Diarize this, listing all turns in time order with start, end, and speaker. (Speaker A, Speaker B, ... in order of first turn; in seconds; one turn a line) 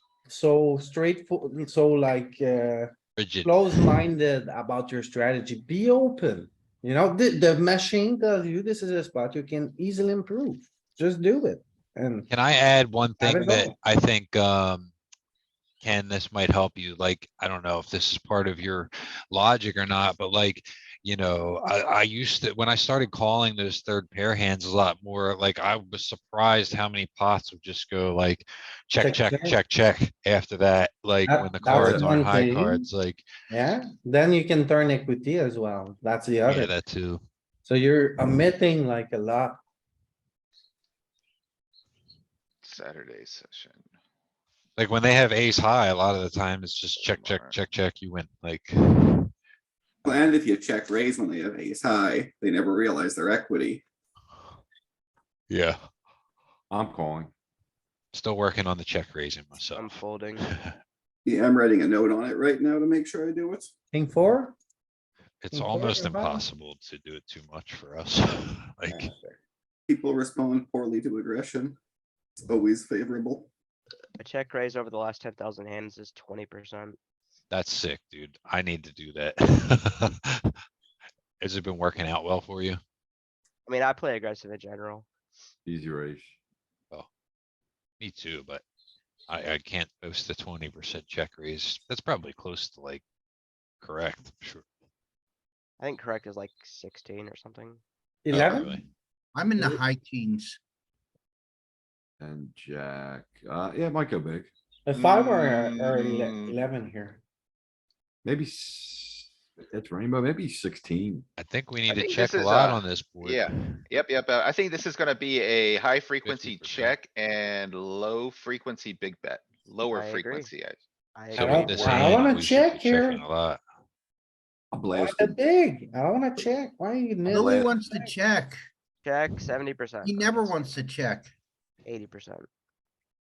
Speaker A: 0.3-2.9
Speaker B: 3.2-3.6
Speaker A: 3.4-12.3
Speaker B: 12.3-14.9
Speaker A: 13.2-13.7
Speaker B: 15.8-33.2
Speaker A: 29.0-29.6
Speaker A: 31.3-32.8
Speaker C: 31.7-32.1
Speaker A: 33.5-36.7
Speaker B: 36.5-37.2
Speaker A: 37.6-39.6
Speaker D: 42.6-43.8
Speaker B: 44.8-49.3
Speaker D: 47.0-47.6
Speaker E: 50.0-53.8
Speaker B: 55.5-55.8
Speaker C: 56.7-57.3
Speaker B: 58.1-60.8
Speaker F: 59.7-60.5
Speaker E: 61.2-63.7
Speaker A: 63.9-64.6
Speaker B: 65.4-69.1
Speaker A: 65.5-66.4
Speaker A: 68.9-69.3
Speaker E: 69.9-71.8
Speaker E: 72.4-73.5
Speaker F: 74.2-77.0
Speaker B: 77.5-80.5
Speaker B: 81.4-82.8
Speaker F: 83.7-85.1
Speaker C: 85.6-86.3
Speaker B: 88.0-88.6
Speaker B: 89.3-93.0
Speaker B: 93.8-94.6
Speaker F: 95.8-97.8
Speaker A: 98.2-98.8
Speaker B: 98.3-98.8
Speaker G: 99.3-100.6
Speaker C: 102.2-104.5
Speaker A: 104.9-107.2
Speaker D: 104.9-106.5
Speaker C: 108.2-111.2
Speaker B: 111.4-113.8
Speaker D: 111.9-120.8
Speaker B: 116.2-116.9
Speaker F: 119.8-120.5
Speaker F: 121.1-122.2
Speaker B: 121.3-123.6
Speaker A: 121.3-123.2
Speaker C: 124.7-125.3
Speaker A: 124.9-128.1
Speaker G: 127.3-128.6
Speaker C: 127.3-127.7
Speaker F: 129.0-130.7
Speaker G: 130.0-131.3
Speaker F: 131.8-132.5